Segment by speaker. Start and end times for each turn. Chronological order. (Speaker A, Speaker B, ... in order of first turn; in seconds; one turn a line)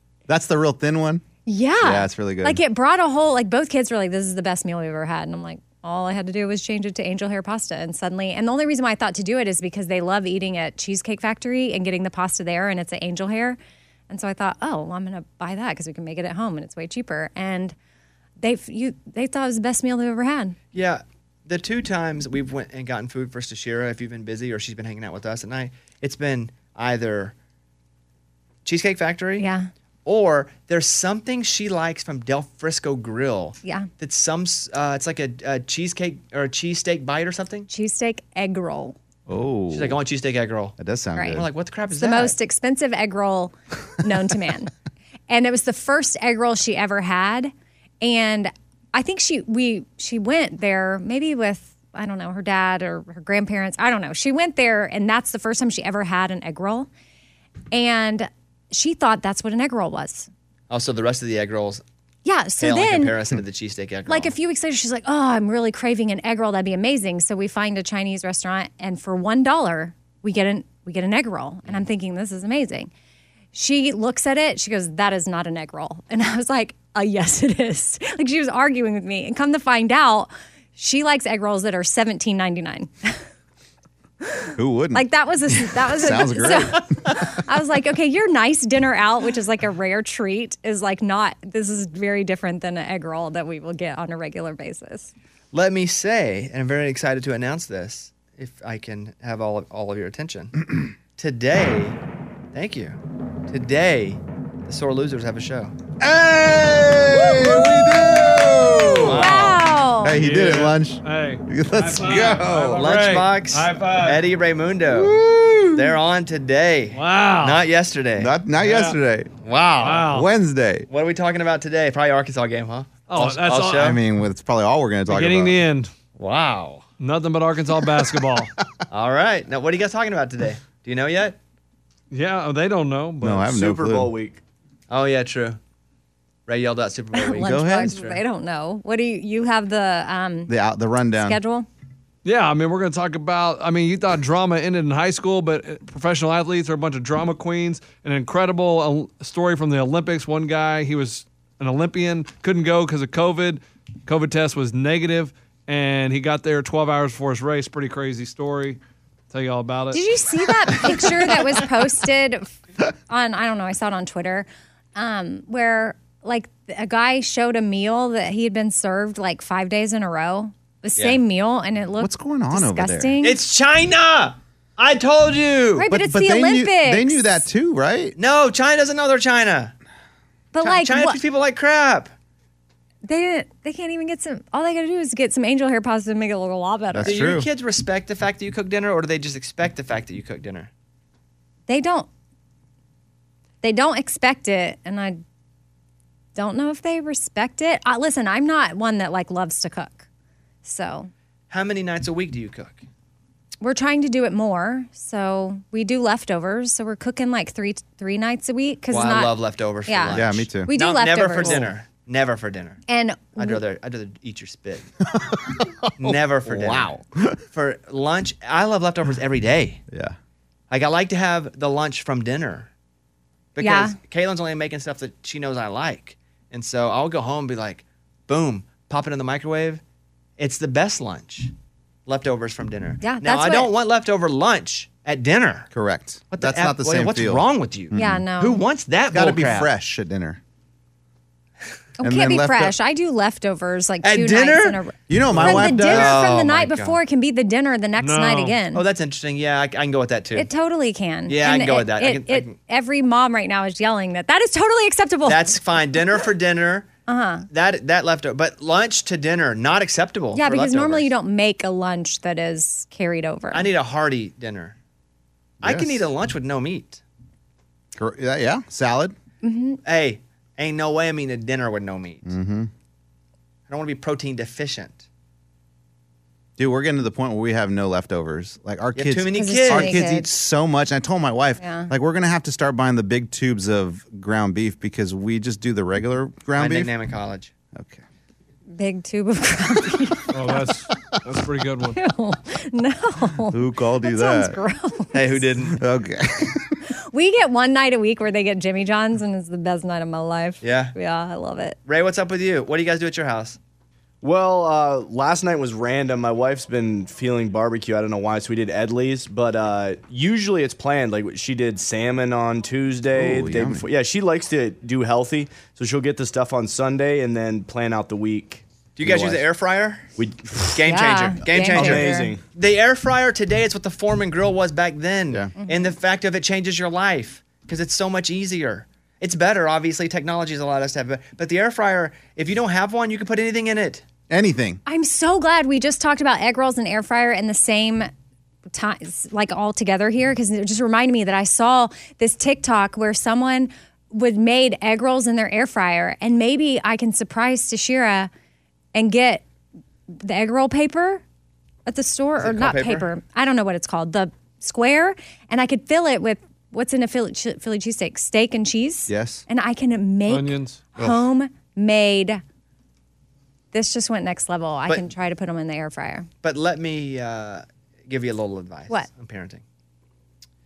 Speaker A: 0.3-1.2
Speaker B: 1.5-17.8
Speaker A: 1.8-2.6
Speaker B: 18.4-20.6
Speaker C: 20.7-27.4
Speaker C: 28.6-29.5
Speaker B: 29.4-29.7
Speaker C: 30.1-37.7
Speaker B: 37.7-39.0
Speaker A: 39.3-40.0
Speaker C: 39.7-40.8
Speaker A: 40.8-41.5
Speaker C: 41.3-42.4
Speaker B: 41.9-44.7
Speaker B: 45.3-56.9
Speaker B: 57.7-60.3
Speaker C: 60.7-61.8
Speaker B: 62.2-63.2
Speaker C: 62.6-64.3
Speaker B: 64.1-72.9
Speaker B: 73.5-83.2
Speaker B: 84.2-95.1
Speaker A: 84.6-85.0
Speaker A: 85.8-86.8
Speaker C: 95.5-100.6
Speaker C: 101.2-102.0
Speaker C: 102.5-105.7
Speaker A: 106.0-109.5
Speaker C: 109.0-109.7
Speaker B: 109.1-110.2
Speaker A: 110.0-112.8
Speaker D: 110.2-114.1
Speaker C: 112.4-115.2
Speaker A: 114.9-116.0
Speaker C: 115.8-118.4
Speaker D: 116.9-117.6
Speaker A: 118.2-119.3
Speaker C: 119.4-120.2
Speaker D: 119.8-120.2
Speaker A: 120.1-120.9
Speaker C: 120.9-124.0
Speaker D: 123.1-123.8
Speaker A: 123.8-125.7
Speaker D: 125.1-125.9
Speaker C: 126.2-126.8
Speaker D: 127.0-128.5
Speaker C: 128.9-131.4
Speaker D: 132.1-133.3
Speaker A: 133.2-134.1
Speaker E: 133.3-134.4
Speaker C: 134.9-135.6
Speaker C: 136.5-138.2
Speaker B: 137.1-140.5
Speaker A: 137.4-138.0
Speaker A: 140.5-141.4
Speaker B: 141.1-141.7
Speaker D: 142.2-158.8
Speaker D: 159.3-160.0
Speaker B: 159.9-162.6
Speaker B: 163.1-173.4
Speaker A: 172.0-173.2
Speaker C: 173.2-175.9
Speaker B: 175.8-177.5
Speaker A: 175.9-178.2
Speaker C: 178.2-179.8
Speaker B: 180.5-181.2
Speaker C: 180.6-182.1
Speaker B: 183.1-187.2
Speaker A: 186.9-187.5
Speaker C: 187.0-190.7
Speaker B: 191.7-192.1
Speaker B: 193.6-195.2
Speaker B: 196.3-200.1
Speaker B: 200.6-201.1
Speaker C: 201.5-202.8
Speaker B: 203.6-209.3
Speaker C: 208.9-212.8
Speaker B: 209.9-211.7
Speaker A: 210.1-210.7
Speaker B: 212.9-213.6
Speaker C: 213.4-214.9
Speaker A: 215.1-217.4
Speaker C: 216.0-217.0
Speaker C: 217.5-219.8
Speaker A: 219.9-220.2
Speaker C: 220.7-222.7
Speaker C: 223.6-229.8
Speaker B: 223.6-224.0
Speaker C: 230.4-231.5
Speaker C: 232.1-235.7
Speaker B: 233.0-233.7
Speaker A: 235.7-238.2
Speaker C: 236.3-239.7
Speaker B: 237.9-238.6
Speaker A: 239.1-240.4
Speaker B: 242.0-248.8
Speaker A: 242.0-242.8
Speaker C: 244.0-244.8
Speaker A: 245.1-246.2
Speaker C: 245.4-247.0
Speaker D: 248.0-248.6
Speaker C: 248.7-250.5
Speaker B: 250.3-255.5
Speaker C: 251.3-252.6
Speaker C: 255.3-256.9
Speaker B: 257.1-257.5
Speaker C: 257.5-261.1
Speaker B: 260.3-263.7
Speaker C: 263.5-264.8
Speaker A: 265.6-266.1
Speaker C: 265.6-267.0
Speaker A: 268.0-269.1
Speaker B: 269.4-269.8
Speaker C: 269.8-272.3
Speaker A: 272.2-272.7
Speaker C: 273.7-275.1
Speaker A: 276.6-286.9
Speaker C: 278.9-280.1
Speaker B: 279.3-280.3
Speaker B: 281.6-281.9
Speaker C: 286.6-287.5
Speaker A: 287.7-288.0
Speaker B: 288.7-290.6
Speaker D: 290.3-292.0
Speaker B: 291.9-295.4
Speaker A: 293.5-294.6
Speaker C: 295.1-295.8
Speaker A: 295.7-296.8
Speaker B: 297.1-301.8
Speaker C: 300.6-301.0
Speaker C: 301.9-303.6
Speaker E: 304.2-319.4
Speaker A: 313.1-313.9
Speaker C: 319.0-320.1
Speaker E: 320.2-320.9
Speaker C: 320.7-334.0
Speaker B: 320.9-322.3
Speaker E: 321.6-322.4
Speaker B: 325.6-325.9
Speaker A: 334.3-334.8
Speaker B: 334.9-338.1
Speaker B: 338.7-348.3
Speaker B: 348.9-349.4
Speaker B: 350.1-351.2
Speaker B: 351.9-362.4
Speaker C: 352.4-353.1
Speaker A: 359.1-359.4
Speaker D: 360.3-360.9
Speaker B: 363.7-366.3
Speaker C: 366.4-369.6